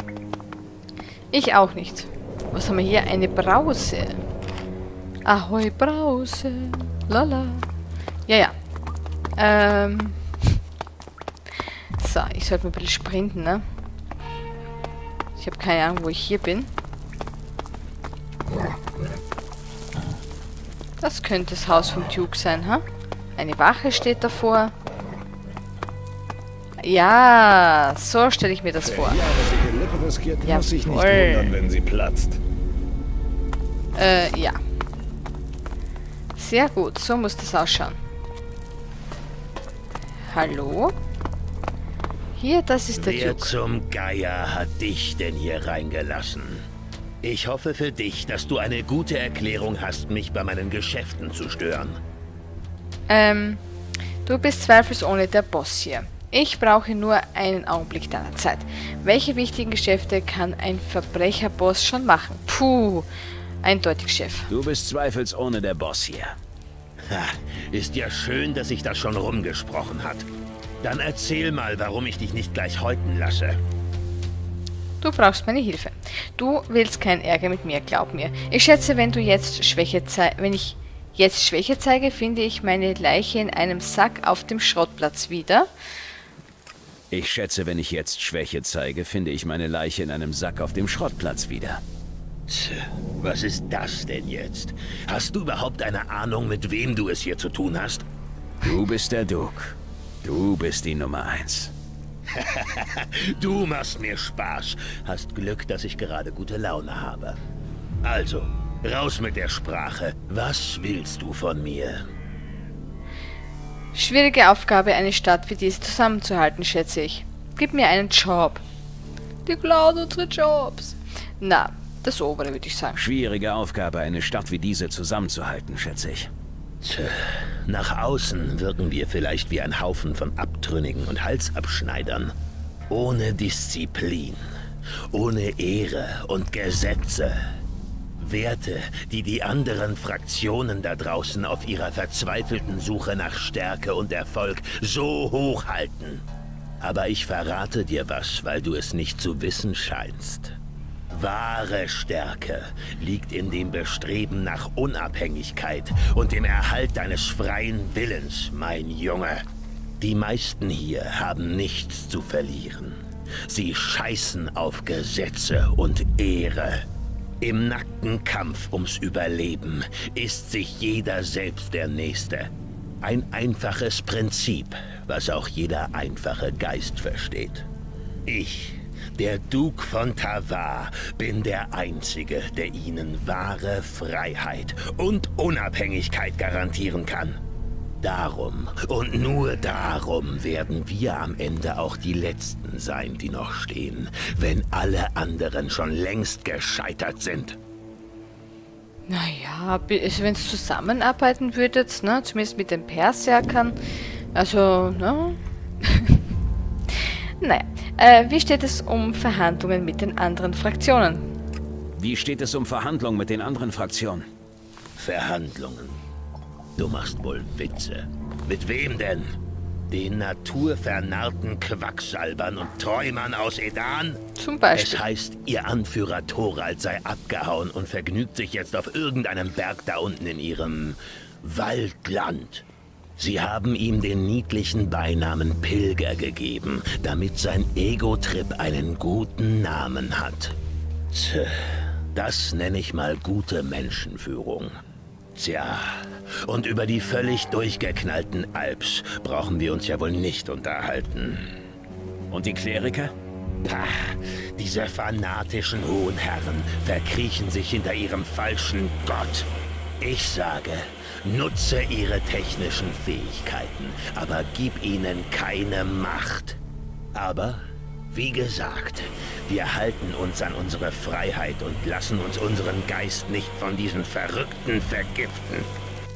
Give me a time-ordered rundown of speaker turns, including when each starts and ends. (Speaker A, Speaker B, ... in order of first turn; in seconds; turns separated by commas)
Speaker A: 1.3-4.2, Speaker A: 5.2-7.7, Speaker A: 8.3-8.5, Speaker A: 9.4-10.5, Speaker A: 12.0-13.6, Speaker A: 15.4-16.7, Speaker A: 21.0-22.8, Speaker A: 23.4-24.7, Speaker A: 26.8-29.2, Speaker B: 28.8-32.4, Speaker A: 30.4-31.6, Speaker A: 33.9-34.6, Speaker A: 36.4-38.0, Speaker A: 40.3-40.9, Speaker A: 42.4-43.5, Speaker C: 43.0-46.6, Speaker C: 47.2-52.0, Speaker A: 53.1-53.6, Speaker A: 54.2-63.1, Speaker A: 63.6-64.5, Speaker D: 64.5-66.3, Speaker C: 67.1-70.3, Speaker C: 70.8-73.6, Speaker A: 75.0-85.7, Speaker D: 87.1-91.8, Speaker C: 92.5-98.0, Speaker D: 98.6-101.7, Speaker C: 102.4-107.4, Speaker C: 108.0-112.0, Speaker A: 113.9-118.6, Speaker A: 119.5-123.0, Speaker D: 123.0-126.3, Speaker C: 126.8-127.1, Speaker C: 127.7-132.3, Speaker C: 132.9-134.4, Speaker C: 135.1-137.3, Speaker C: 138.2-146.2, Speaker C: 146.8-150.5, Speaker C: 151.1-159.4, Speaker C: 160.0-166.8, Speaker C: 167.4-172.5, Speaker C: 173.0-177.7, Speaker C: 178.2-187.4, Speaker C: 188.0-197.6, Speaker A: 199.1-203.8, Speaker A: 204.3-206.2, Speaker A: 207.4-211.3, Speaker D: 211.9-214.2, Speaker C: 215.0-216.0, Speaker C: 216.8-219.3, Speaker C: 219.9-224.2, Speaker A: 224.4-225.0, Speaker C: 224.7-232.6, Speaker C: 233.2-240.6, Speaker C: 241.1-241.5, Speaker C: 242.1-244.7, Speaker C: 245.3-245.8, Speaker C: 246.4-251.5, Speaker D: 252.3-253.1, Speaker C: 253.6-259.5, Speaker C: 260.0-266.6, Speaker C: 267.1-275.7